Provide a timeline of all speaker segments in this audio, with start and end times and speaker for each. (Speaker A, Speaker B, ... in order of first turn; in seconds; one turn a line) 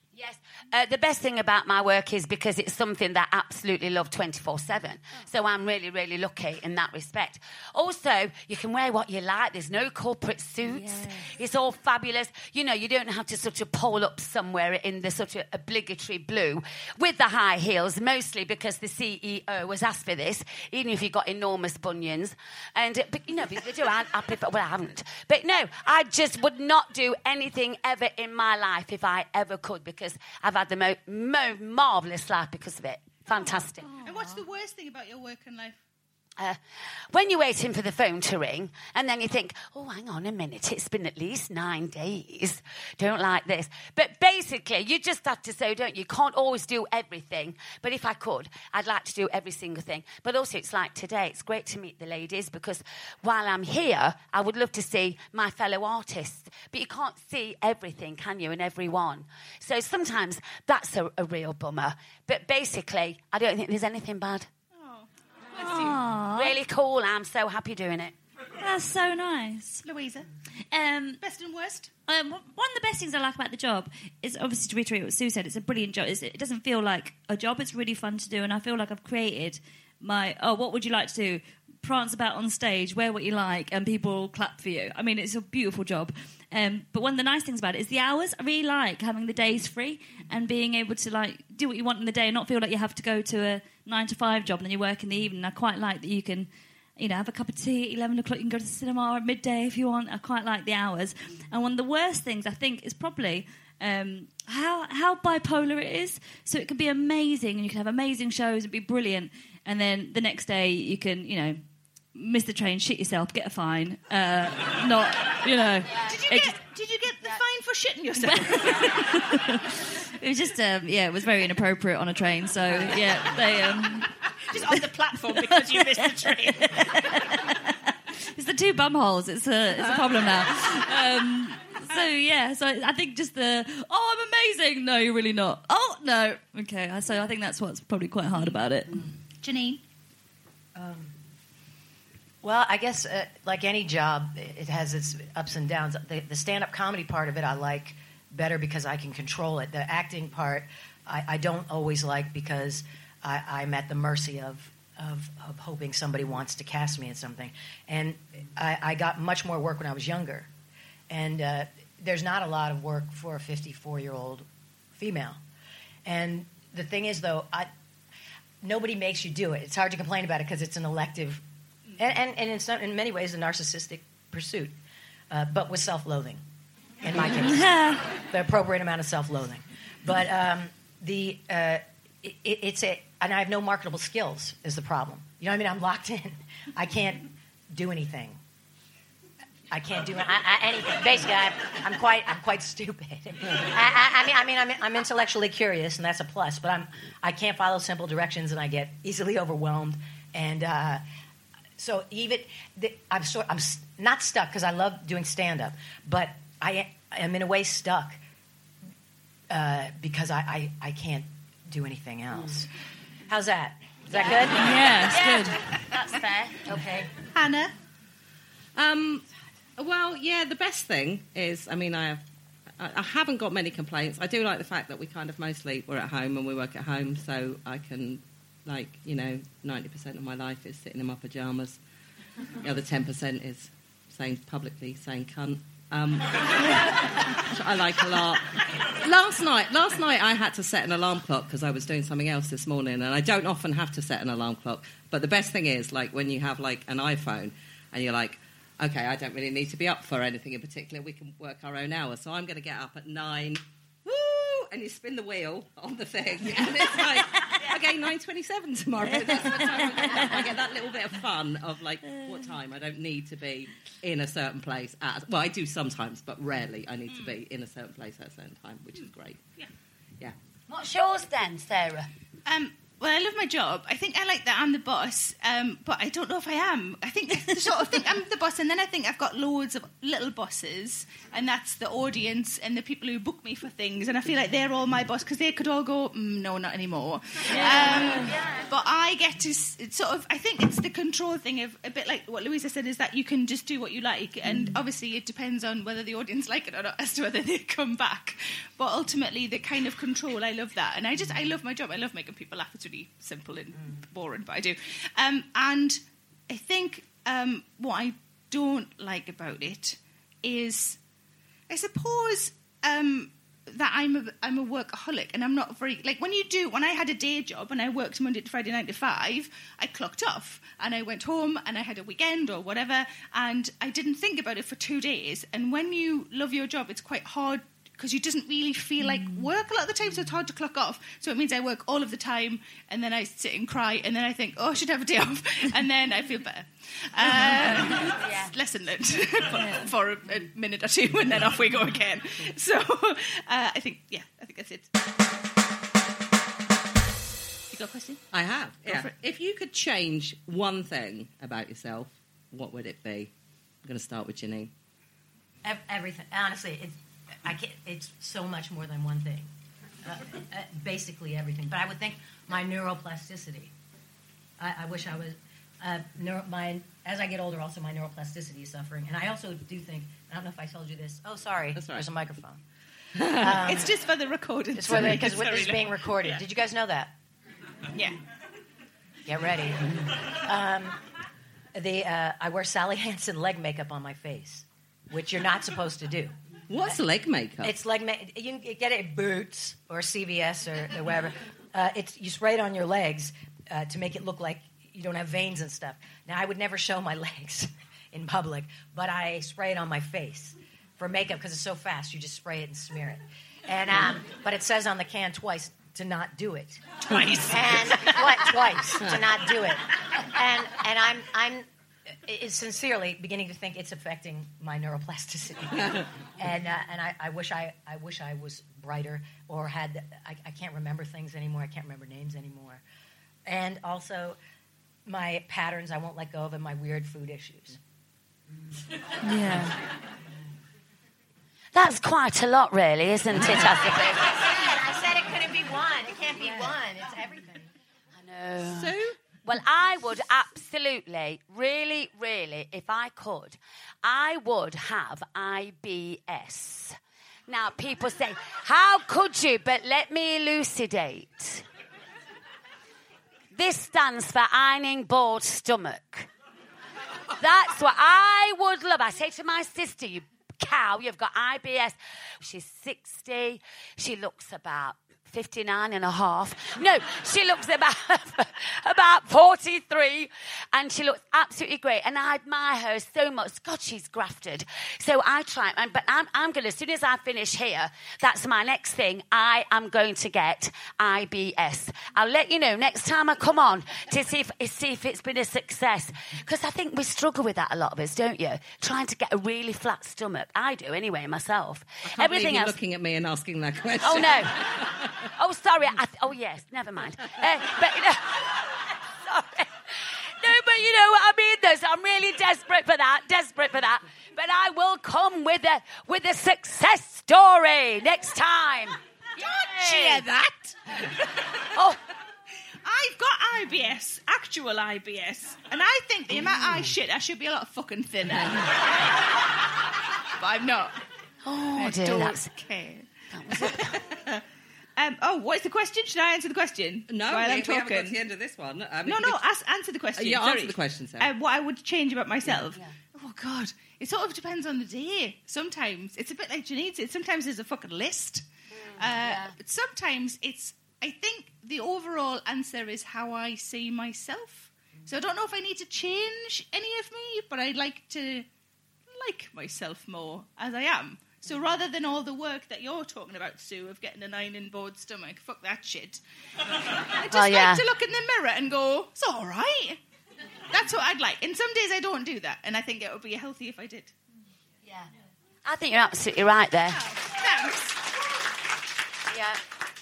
Speaker A: 0.1-34.0
Speaker B: 10.8-11.2
Speaker B: 33.8-34.4
Speaker C: 34.0-35.8
Speaker A: 37.1-64.5
Speaker C: 64.7-65.1
Speaker B: 65.6-66.6
Speaker C: 65.6-66.0
Speaker A: 66.3-68.1
Speaker B: 68.6-69.8
Speaker C: 69.8-70.3
Speaker B: 70.7-71.2
Speaker C: 71.2-71.9
Speaker B: 72.1-111.6
Speaker B: 112.1-116.5
Speaker C: 116.0-119.1
Speaker B: 118.2-124.1
Speaker C: 124.4-126.9
Speaker B: 125.4-139.1
Speaker C: 139.4-139.8
Speaker D: 140.7-141.1
Speaker D: 142.4-160.5
Speaker D: 161.1-165.4
Speaker D: 166.0-167.7
Speaker D: 168.6-171.4
Speaker D: 172.0-174.7
Speaker D: 175.3-176.4
Speaker D: 177.0-188.4
Speaker B: 177.4-178.1
Speaker D: 189.7-201.0
Speaker D: 201.8-208.2
Speaker D: 209.5-212.7
Speaker D: 213.3-214.7
Speaker A: 214.1-216.8
Speaker B: 214.5-215.6
Speaker D: 216.7-217.1
Speaker C: 217.3-217.7
Speaker E: 218.7-219.2
Speaker E: 219.8-222.2
Speaker E: 222.8-231.8
Speaker E: 232.6-269.4
Speaker B: 259.1-260.4
Speaker A: 270.7-272.1
Speaker C: 272.4-311.0
Speaker B: 287.5-288.3
Speaker A: 288.3-288.6
Speaker C: 311.7-344.9
Speaker B: 329.0-329.5
Speaker A: 338.2-338.5
Speaker B: 339.6-339.9
Speaker C: 347.7-348.2
Speaker E: 348.3-353.3
Speaker C: 348.9-349.1
Speaker E: 353.8-354.7
Speaker D: 355.6-359.5
Speaker D: 360.0-363.7
Speaker D: 364.6-372.6
Speaker E: 371.7-372.1
Speaker E: 373.2-373.6
Speaker D: 373.2-373.9
Speaker C: 373.6-375.9
Speaker D: 374.7-377.1
Speaker D: 379.2-381.0
Speaker D: 381.7-386.9
Speaker E: 386.7-387.7
Speaker D: 387.6-406.8
Speaker E: 407.1-407.6
Speaker D: 407.5-422.8
Speaker D: 423.4-424.4
Speaker D: 425.1-427.8
Speaker B: 429.2-429.8
Speaker A: 431.7-434.4
Speaker D: 434.3-437.7
Speaker A: 438.1-447.0
Speaker E: 438.7-439.1
Speaker A: 447.5-451.6
Speaker A: 453.5-456.3
Speaker A: 457.4-492.8
Speaker E: 492.0-495.2
Speaker A: 494.0-494.7
Speaker A: 495.2-509.0
Speaker C: 509.4-511.4
Speaker A: 509.8-510.2
Speaker C: 512.8-518.8
Speaker C: 520.4-521.0
Speaker A: 521.4-522.5
Speaker C: 521.7-524.4
Speaker A: 523.3-524.0
Speaker C: 525.0-528.2
Speaker E: 527.1-529.4
Speaker C: 529.0-548.5
Speaker E: 530.2-531.3
Speaker A: 538.7-539.5
Speaker C: 549.1-556.2
Speaker C: 556.8-560.0
Speaker A: 557.3-557.8
Speaker C: 560.7-564.1
Speaker A: 565.6-567.1
Speaker C: 566.9-568.0